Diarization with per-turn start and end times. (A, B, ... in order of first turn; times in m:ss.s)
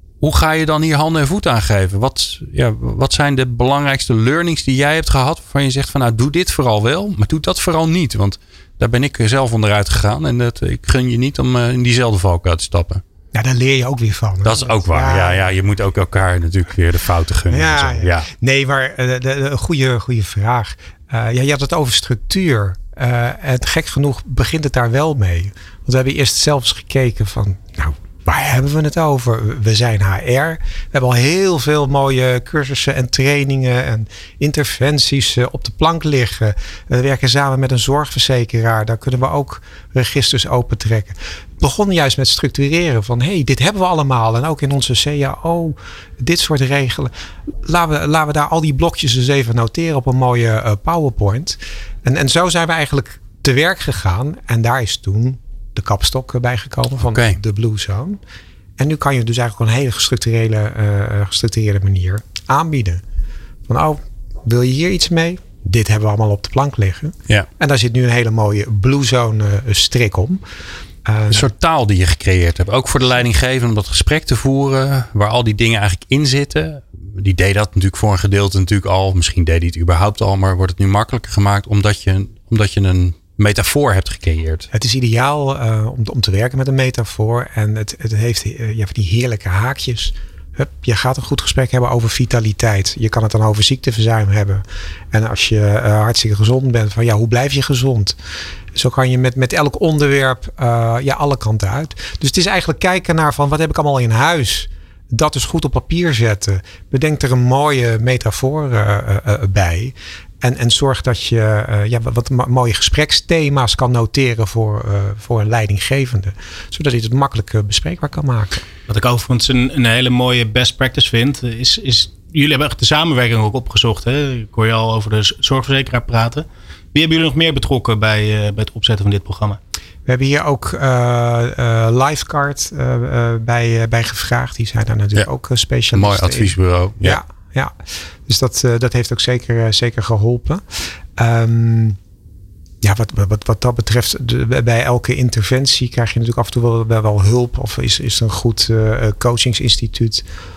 0:00.2-0:13.0 A
0:13.3-0:15.5 B
0:14.4-0:18.3 A
0:17.5-0:58.2 B
0:57.1-0:57.4 A
0:58.8-1:03.0 B
1:03.7-1:10.4 B
1:11.0-1:11.5 B
1:11.3-1:24.7 A
1:24.7-1:38.2 B
1:38.7-1:58.6 B
1:58.9-2:09.6 C
2:10.0-2:22.0 B
2:15.9-2:17.2 A
2:22.8-2:30.2 B